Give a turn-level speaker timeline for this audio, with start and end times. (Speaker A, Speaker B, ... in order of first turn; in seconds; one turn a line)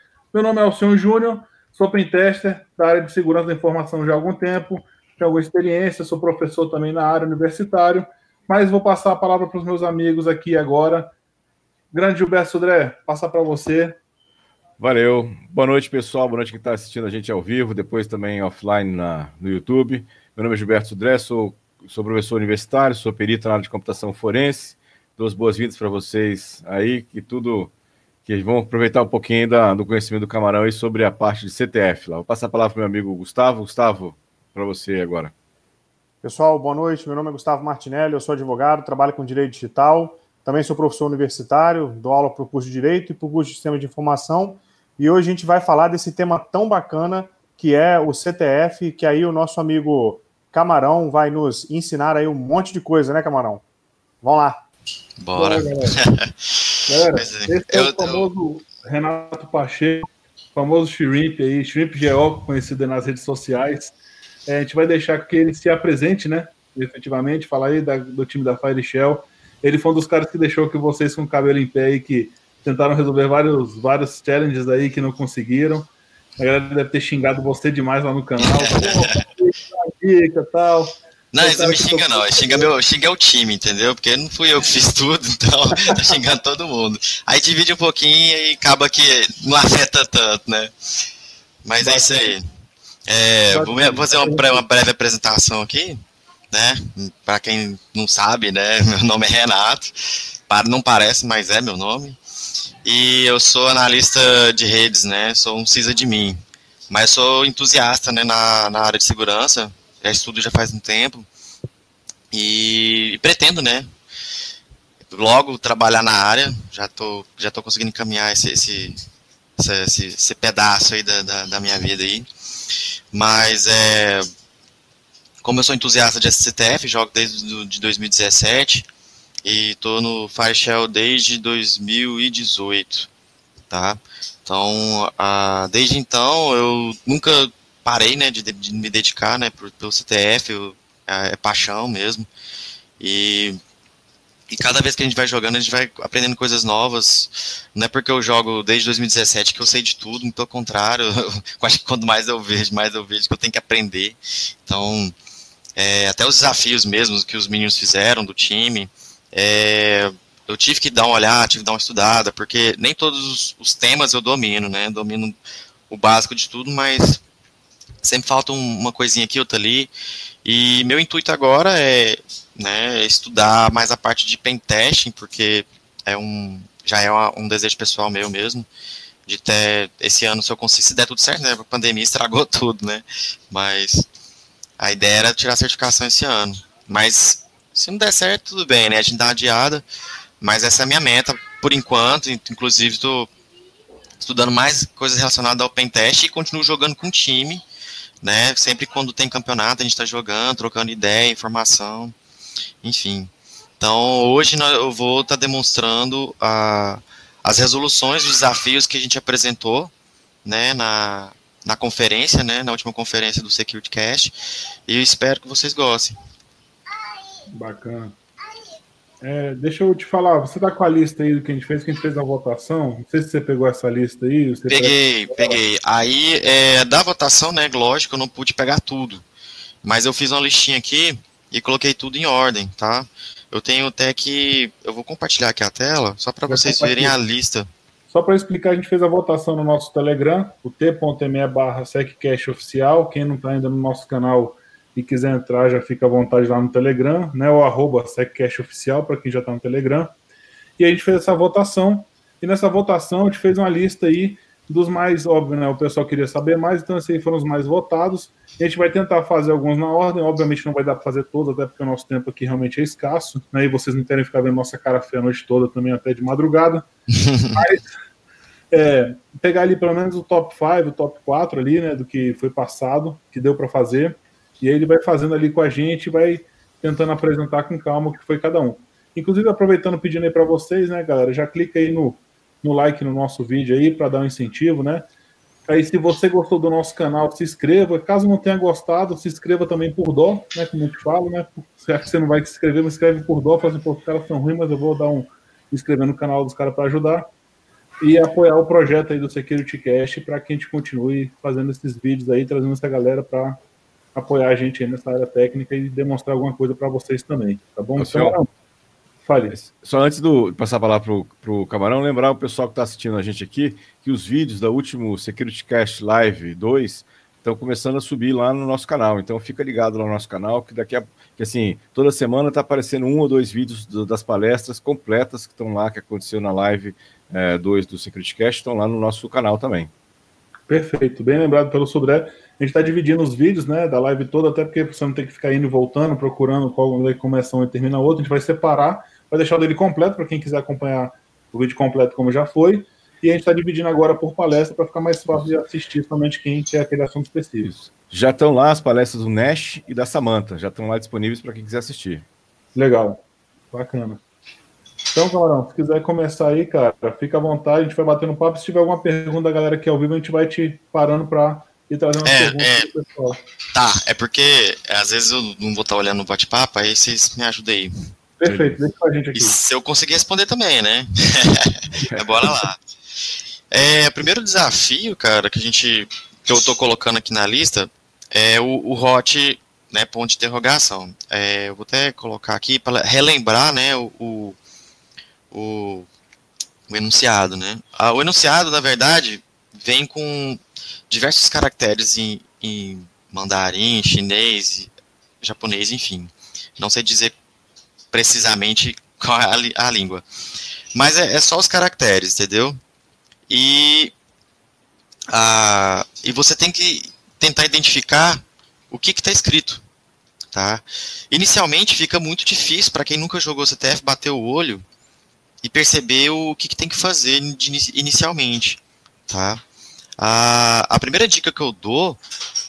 Speaker A: 0.3-11.1
Speaker A: 11.9-14.0
Speaker B: 14.8-27.7
Speaker B: 28.3-35.3
Speaker C: 36.2-53.6
Speaker C: 54.2-54.6
Speaker D: 55.2-58.3
Speaker A: 55.4-56.0
Speaker A: 56.9-63.9
Speaker A: 64.5-82.7
Speaker D: 78.4-79.2
Speaker D: 81.3-90.7
Speaker D: 91.6-92.5
Speaker D: 93.1-96.0
Speaker A: 93.5-94.1
Speaker C: 94.1-94.4
Speaker D: 96.5-102.2
Speaker D: 102.8-111.3
Speaker D: 112.3-113.9
Speaker D: 115.1-119.0
Speaker D: 119.6-122.3
Speaker D: 123.1-124.3
Speaker D: 125.4-128.9
Speaker D: 129.4-133.1
Speaker D: 133.7-142.3
Speaker D: 143.0-143.6
Speaker D: 144.5-155.1
Speaker D: 155.8-165.3
Speaker D: 165.9-167.2
Speaker D: 168.0-169.9
Speaker D: 170.4-178.7
Speaker D: 179.3-184.1
Speaker D: 184.8-189.8
Speaker D: 190.4-193.3
Speaker D: 194.2-197.6
Speaker D: 198.2-202.2
Speaker D: 202.8-209.9
Speaker D: 210.4-214.3
Speaker D: 214.9-216.2
Speaker A: 217.5-218.2
Speaker A: 219.2-225.6
Speaker D: 224.7-229.2
Speaker D: 229.8-237.7
Speaker A: 236.5-237.2
Speaker A: 238.1-250.1
Speaker A: 250.8-266.8
Speaker D: 267.1-267.6
Speaker A: 267.6-267.8
Speaker A: 268.7-285.1
Speaker A: 285.7-297.3
Speaker A: 298.0-303.6
Speaker A: 304.1-308.5
Speaker B: 308.0-308.4
Speaker A: 309.2-309.6
Speaker B: 309.5-329.9
Speaker A: 330.7-347.7
Speaker B: 347.7-352.3
Speaker A: 352.8-353.2
Speaker A: 353.7-354.2
Speaker A: 355.1-363.4
Speaker D: 362.2-362.9
Speaker D: 363.7-367.9
Speaker A: 368.4-369.6
Speaker B: 368.4-368.8
Speaker D: 369.4-372.8
Speaker B: 372.1-372.5
Speaker D: 373.7-384.6
Speaker D: 385.5-386.1
Speaker D: 386.9-397.4
Speaker D: 398.1-400.2
Speaker D: 400.9-402.8
Speaker D: 403.5-404.1
Speaker D: 405.3-409.8
Speaker D: 410.5-414.9
Speaker D: 415.6-419.6
Speaker D: 420.2-422.2